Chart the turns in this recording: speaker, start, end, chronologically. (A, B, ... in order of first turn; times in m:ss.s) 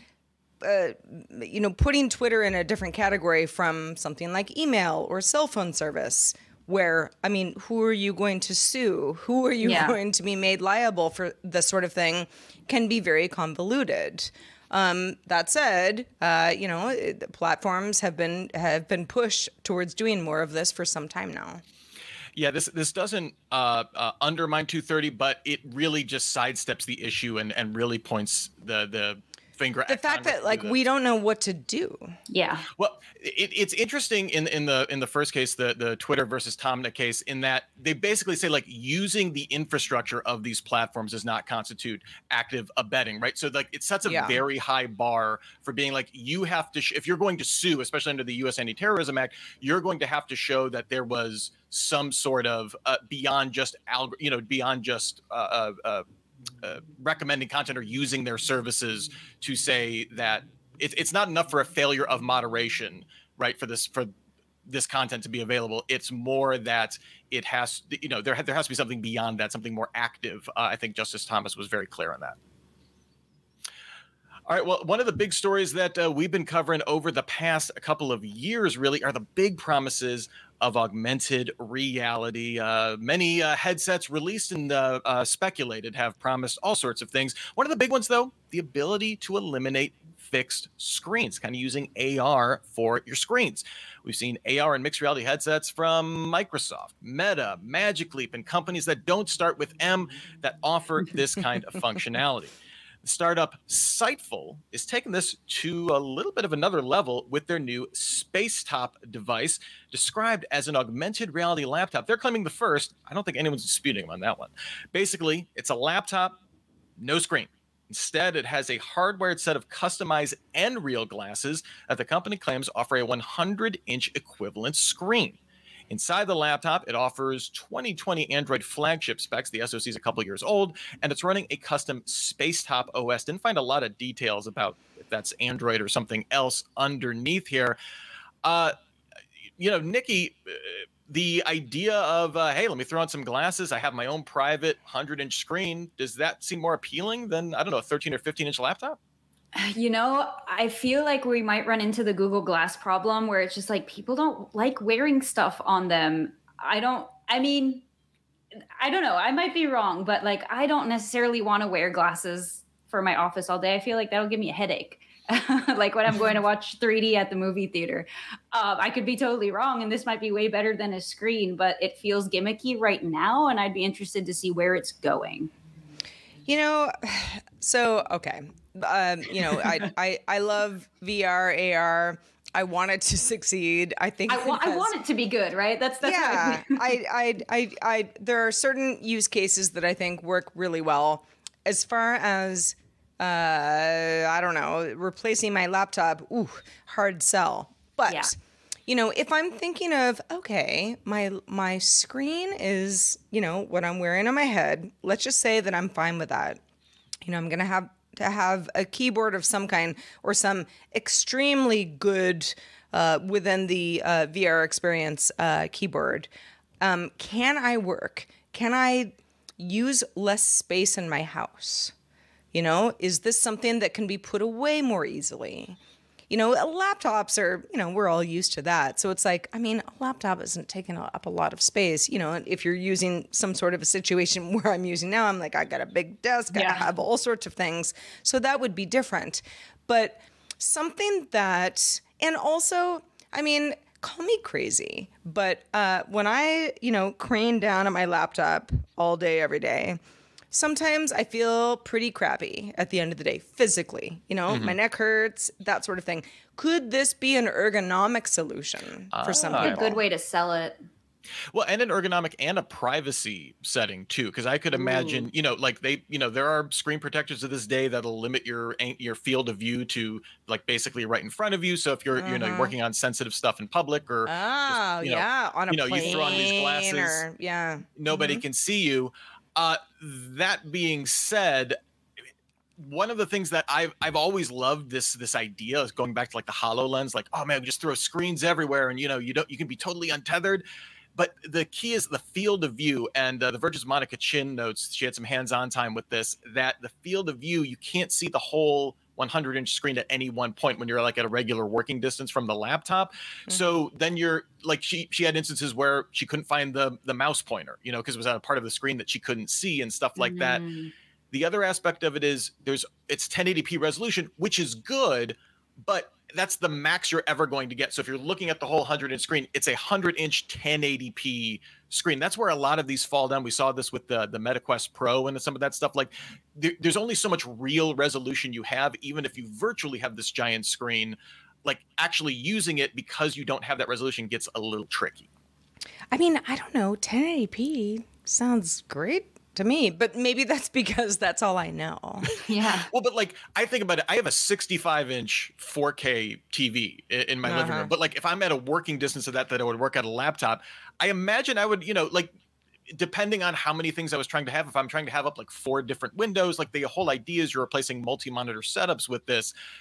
0:00.6-0:21.6 A
0:09.6-0:10.0 B
0:22.3-0:30.8 C
0:29.9-0:32.2 A
0:32.3-0:32.7 B
0:32.7-0:56.0 C
0:44.0-0:44.4 A
0:56.6-1:04.1 C
1:04.6-1:12.4 C
1:14.5-1:56.4 C
1:57.0-2:17.8 C
2:18.4-2:18.7 C
2:19.6-2:29.0 C
2:29.5-2:37.8 B
2:38.8-2:55.5 B
2:56.4-3:04.9 A
3:04.3-3:06.8 B
3:06.0-3:18.3 A
3:18.9-3:26.6 A
3:27.2-3:36.3 A
3:36.8-3:41.9 A
3:42.5-3:45.8 A
3:46.3-4:10.0 A
3:56.5-3:56.8 B
4:10.5-4:19.9 A
4:14.5-4:14.7 C
4:19.1-4:20.0 C
4:19.6-4:20.8 B
4:21.5-4:37.2 C
4:24.8-4:25.3 B
4:32.2-4:32.7 A
4:34.3-4:38.3 A
4:36.0-4:36.5 B
4:38.0-4:41.8 C
4:42.8-4:50.6 C
4:51.2-5:10.6 C
5:10.2-5:10.9 B
5:11.3-5:35.3 C
5:36.1-5:42.3 A
5:42.4-5:42.9 B
5:42.9-5:52.3 C
5:47.4-5:47.9 A
5:52.9-5:59.5 C